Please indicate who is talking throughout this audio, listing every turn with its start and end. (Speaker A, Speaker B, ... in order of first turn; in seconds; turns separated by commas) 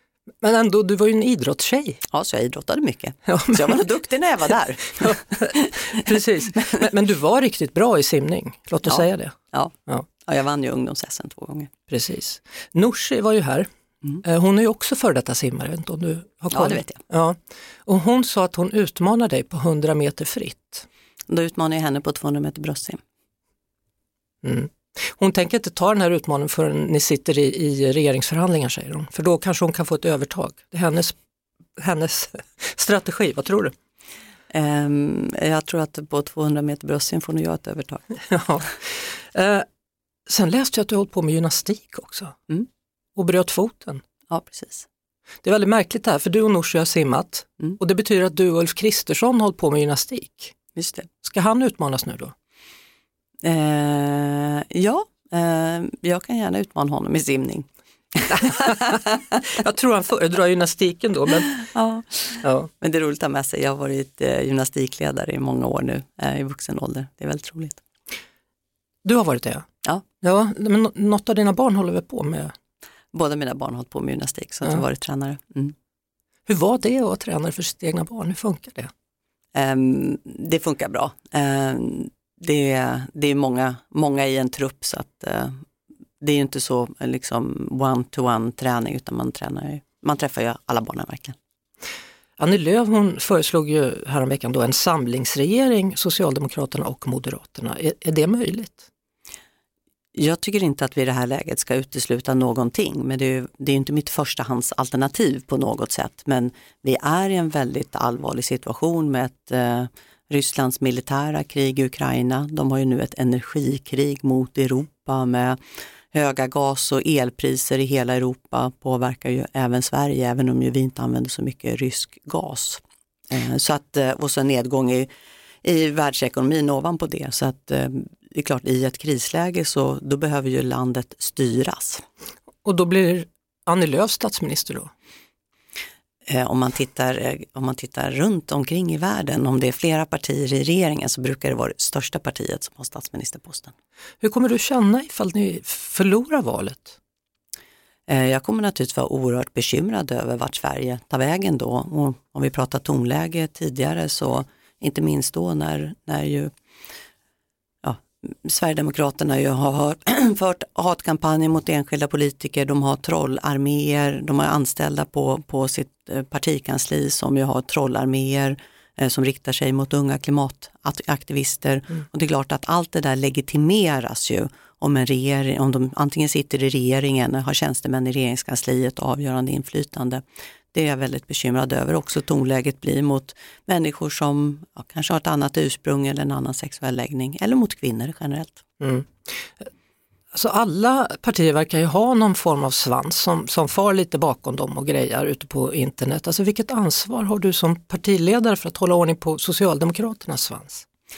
Speaker A: 0.4-2.0, Speaker B: 2.1-6.0, Speaker A: 3.3-3.8, Speaker A: 5.0-5.5, Speaker A: 6.0-9.3, Speaker B: 8.8-9.7, Speaker B: 10.2-11.7, Speaker A: 11.9-20.9, Speaker B: 16.5-17.0, Speaker B: 21.3-23.0, Speaker A: 24.4-31.1, Speaker A: 31.8-33.7, Speaker B: 34.5-38.0, Speaker A: 38.2-39.6, Speaker A: 40.3-42.4, Speaker A: 43.1-44.0, Speaker B: 44.3-44.9, Speaker A: 45.4-50.5, Speaker B: 50.7-51.1, Speaker A: 51.2-52.3, Speaker B: 53.4-58.9, Speaker A: 58.6-59.0, Speaker A: 59.5-61.5, Speaker B: 61.7-67.8, Speaker A: 62.4-62.7, Speaker A: 69.0-69.6, Speaker A: 70.2-72.5, Speaker B: 73.1-75.7, Speaker A: 76.5-78.9, Speaker B: 79.5-85.5, Speaker B: 86.2-91.3, Speaker A: 92.4-98.9, Speaker B: 100.1-115.6, Speaker B: 116.1-125.1, Speaker B: 125.6-132.0, Speaker A: 132.6-134.9, Speaker B: 136.3-143.7, Speaker A: 144.2-147.0, Speaker B: 148.1-156.5, Speaker B: 157.8-188.6, Speaker A: 188.8-189.7, Speaker A: 190.3-200.8